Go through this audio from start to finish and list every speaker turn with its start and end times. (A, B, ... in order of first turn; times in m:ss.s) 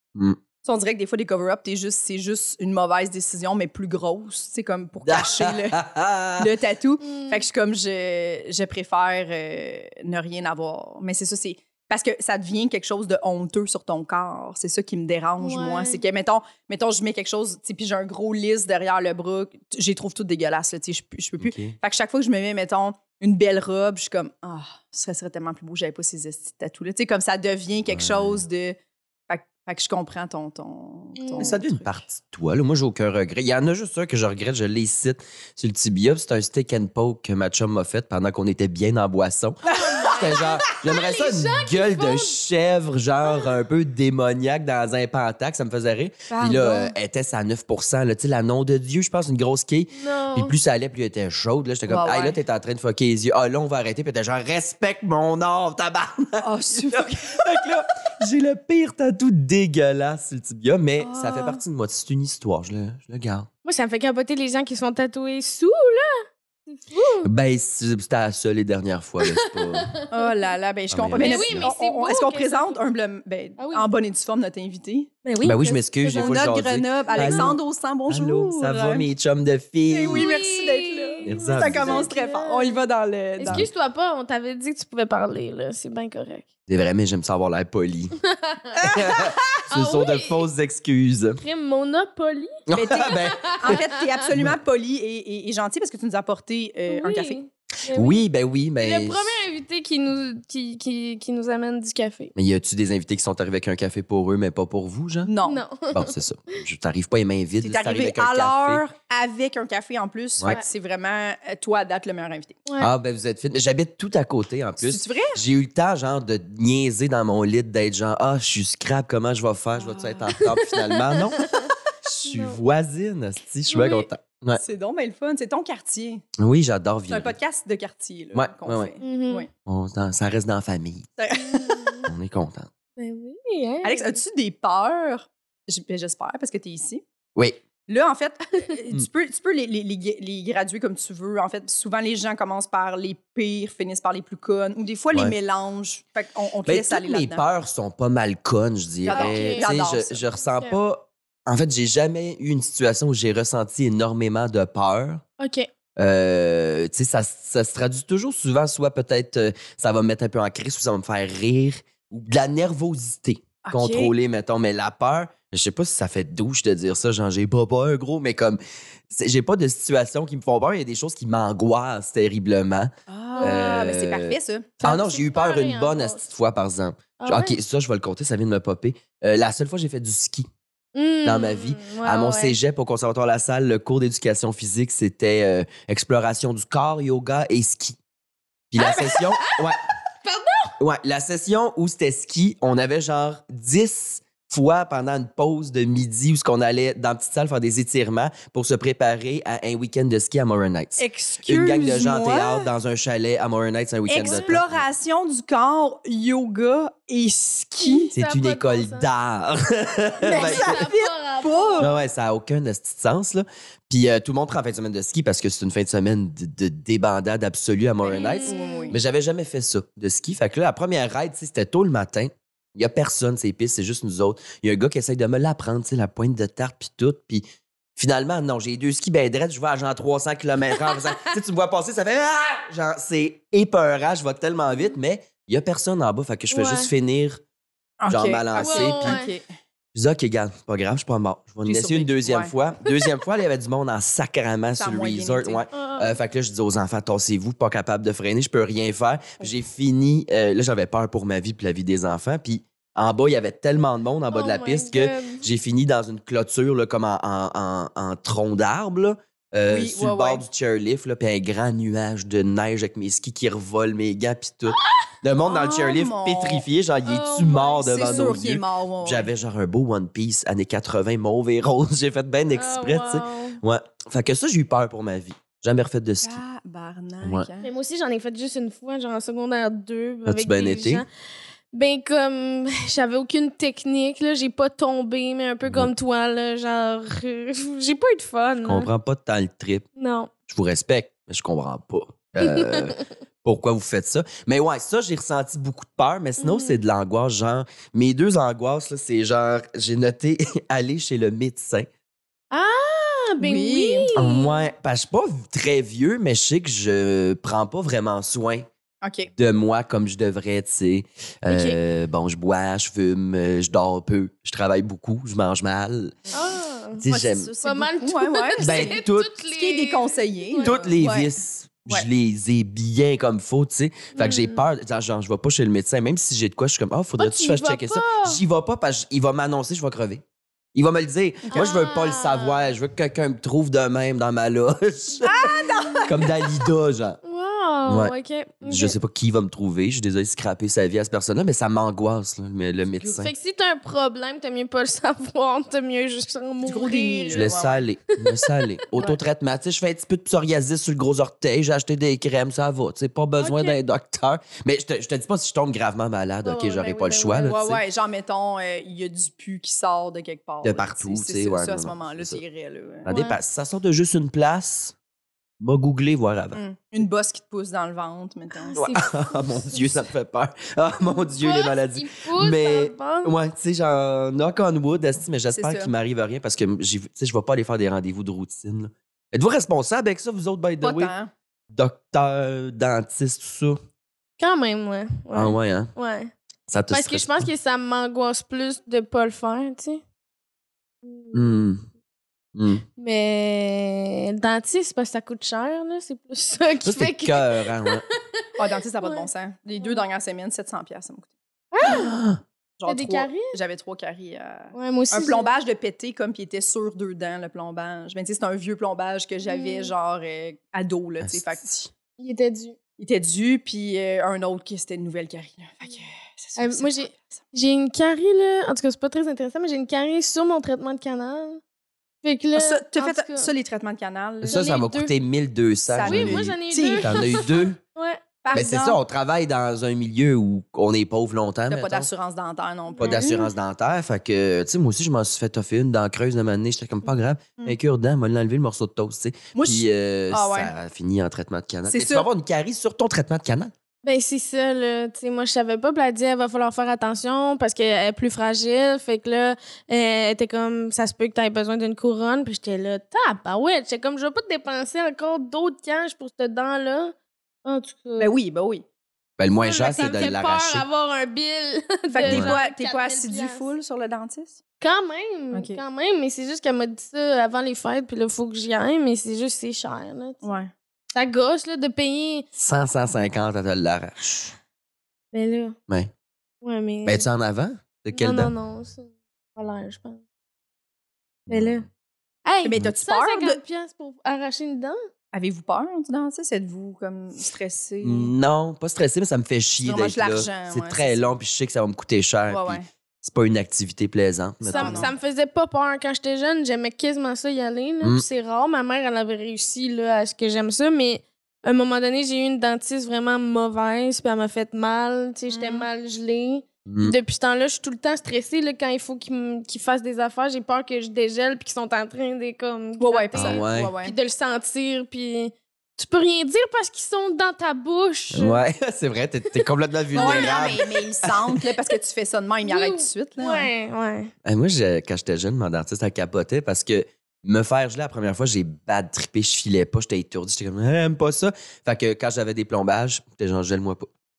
0:00.6-0:05.8 A
0:05.0-0:06.5 B
0:06.4-0:28.8 A
0:07.0-0:07.4 C
0:15.4-0:16.0 C
0:21.4-0:21.8 B
0:27.9-0:28.4 B
0:29.3-0:31.9 A
0:31.2-0:31.6 C
0:31.4-1:03.5 B
0:39.7-0:40.4 A
0:39.7-0:42.4 C
0:46.3-0:46.9 A
0:50.0-0:50.5 C
0:51.9-0:52.4 A
0:56.4-0:57.4 A
1:01.0-1:01.6 A
1:03.6-1:07.3 C
1:07.2-1:09.9 B
1:09.2-1:10.1 C
1:10.1-1:19.1 A
1:10.9-1:11.7 B
1:11.2-1:12.8 C
1:13.6-1:13.9 C
1:15.2-1:15.6 C
1:15.4-1:20.3 B
1:17.2-1:17.6 C
1:19.9-1:23.7 A
1:20.1-1:22.8 C
1:21.2-1:22.1 B
1:23.4-1:26.5 C
1:23.4-1:23.7 B
1:26.7-1:28.2 B
1:28.3-1:29.1 C
1:28.8-1:29.3 A
1:28.9-1:31.4 B
1:29.7-1:30.5 C
1:31.4-1:32.5 C
1:32.7-1:33.8 B
1:32.7-1:37.4 A
1:33.2-1:34.0 C
1:36.9-1:38.2 C
1:37.9-1:39.3 B
1:38.8-1:42.3 C
1:42.4-1:45.3 B
1:45.3-1:45.6 A
1:45.4-1:46.6 C
1:45.9-1:48.8 B
1:47.6-1:52.6 A
1:52.8-2:01.5 B
1:54.8-1:55.4 A
1:59.8-2:00.4 A
2:01.0-2:01.7 C
2:02.0-2:04.6 B
2:02.2-2:02.6 C
2:03.7-2:04.1 C
2:04.6-2:06.2 A
2:06.4-2:07.4 B
2:07.1-2:09.5 A
2:08.3-2:08.9 B
2:09.0-2:09.5 C
2:09.7-2:11.2 B
2:11.2-2:12.0 A
2:11.4-2:12.1 C
2:12.1-2:12.7 B
2:13.0-2:14.2 C
2:13.8-2:17.0 A
2:17.4-2:17.6 B
2:17.9-2:27.5 A
2:26.7-2:35.2 B
2:29.0-2:30.2 A
2:29.1-2:29.7 C
2:35.4-2:35.7 C
2:36.0-3:00.5 B
2:43.6-2:44.1 A
2:53.1-2:54.8 A
2:53.4-2:53.9 C
2:54.8-2:56.2 C
2:57.2-2:57.6 C
3:01.0-3:02.6 C
3:01.2-3:08.0 B
3:08.7-3:09.8 B
3:08.8-3:09.6 C
3:10.2-3:10.7 C
3:10.8-3:24.8 B
3:21.0-3:22.7 A
3:24.1-3:28.1 A
3:24.2-3:24.6 C
3:27.8-3:29.1 C
3:28.1-3:30.8 B
3:30.2-3:31.9 C
3:30.2-3:31.9 A
3:31.8-3:47.4 B
3:38.0-3:39.0 A
3:38.1-3:39.0 C
3:48.0-3:57.4 B
3:56.5-3:56.9 C
3:58.0-3:59.5 A
3:58.1-3:59.2 B
3:58.6-3:59.3 C
4:00.0-4:36.4 B
4:01.6-4:02.5 A
4:04.8-4:05.6 A
4:05.7-4:06.2 C
4:14.3-4:15.5 C
4:19.7-4:20.4 A
4:25.5-4:26.7 A
4:27.1-4:28.4 C
4:27.8-4:29.3 A
4:32.5-4:33.6 C
4:36.2-4:37.7 A
4:37.2-4:37.5 B
4:37.6-4:41.1 C
4:40.3-4:41.0 B
4:41.7-4:48.9 C
4:45.6-4:45.9 B
4:48.6-4:49.9 B
4:50.0-4:50.3 C
4:50.5-5:01.9 B
4:52.5-4:53.0 C
4:56.4-4:56.8 C
5:02.5-5:04.7 C
5:03.4-5:04.1 A
5:04.2-5:08.7 B
5:09.0-5:09.3 A
5:09.4-5:16.2 B
5:16.3-5:17.0 C
5:17.0-5:17.5 B
5:17.1-5:21.4 A
5:17.6-5:20.8 C
5:18.6-5:19.3 B
5:20.6-5:30.2 B
5:24.2-5:24.7 C
5:27.2-5:28.4 C
5:30.8-5:37.2 B
5:31.4-5:31.7 A
5:31.5-5:32.7 C
5:35.2-5:36.2 A
5:35.3-5:36.1 C
5:37.2-5:39.0 C
5:37.9-5:43.3 B
5:43.0-5:47.6 C
5:46.6-5:47.8 A
5:47.3-5:57.8 B
5:53.4-5:53.8 C
5:56.4-5:57.6 C
5:57.5-6:03.1 A
6:00.6-6:02.4 B
6:03.0-6:05.0 B
6:03.1-6:03.4 C
6:05.6-6:06.6 B
6:06.5-6:09.0 A
6:08.8-6:21.1 B
6:08.8-6:09.8 C
6:11.3-6:13.4 C
6:15.5-6:15.9 A
6:20.8-6:21.3 A
6:21.7-6:23.8 B
6:24.4-6:26.3 C
6:25.3-6:25.9 B
6:26.7-6:27.5 B
6:26.9-6:30.0 C
6:31.0-6:31.5 C
6:31.3-6:31.9 B
6:32.6-6:32.8 B
6:33.0-6:38.4 C
6:36.8-6:38.0 B
6:38.6-6:41.3 A
6:39.0-6:39.3 C
6:41.7-6:42.1 C
6:41.8-6:42.4 B
6:42.8-6:51.9 A
6:42.9-6:43.5 C
6:44.7-6:45.5 C
6:49.5-6:49.9 C
6:51.2-6:51.6 B
6:52.2-6:52.8 C
6:53.0-6:57.4 A
6:56.6-7:01.6 C
7:02.2-7:03.5 C
7:02.6-7:04.7 A
7:04.4-7:07.8 B
7:04.5-7:05.1 C
7:05.9-7:07.5 A
7:06.0-7:08.7 C
7:08.4-7:09.0 A
7:08.5-7:12.1 B
7:11.7-7:13.5 A
7:12.9-7:13.3 C
7:13.0-7:23.7 B
7:19.6-7:20.7 A
7:21.9-7:22.3 A
7:24.0-7:38.3 C
7:38.2-7:38.8 A
7:39.4-7:40.9 B
7:39.6-7:43.7 C
7:42.1-7:44.6 A
7:42.2-7:42.5 B
7:44.8-7:50.4 C
7:45.5-7:45.8 A
7:50.4-7:50.7 A
7:51.1-7:52.4 C
7:52.6-7:54.5 B
7:55.3-7:55.8 C
7:56.6-7:57.3 C
7:57.0-7:58.5 B
7:58.1-8:00.2 C
8:01.5-8:01.8 B
8:01.5-8:01.9 C
8:02.5-8:05.0 C
8:02.6-8:03.6 A
8:05.3-8:08.3 A
8:08.0-8:15.1 B
8:09.8-8:11.3 A
8:12.5-8:12.9 A
8:14.6-8:15.1 A
8:14.7-8:38.6 C
8:25.5-8:25.9 A
8:26.9-8:27.2 B
8:33.0-8:34.2 A
8:33.4-8:33.9 B
8:38.3-8:41.6 B
8:40.2-8:40.8 C
8:40.2-8:43.7 A
8:42.7-8:44.3 C
8:44.4-8:54.1 B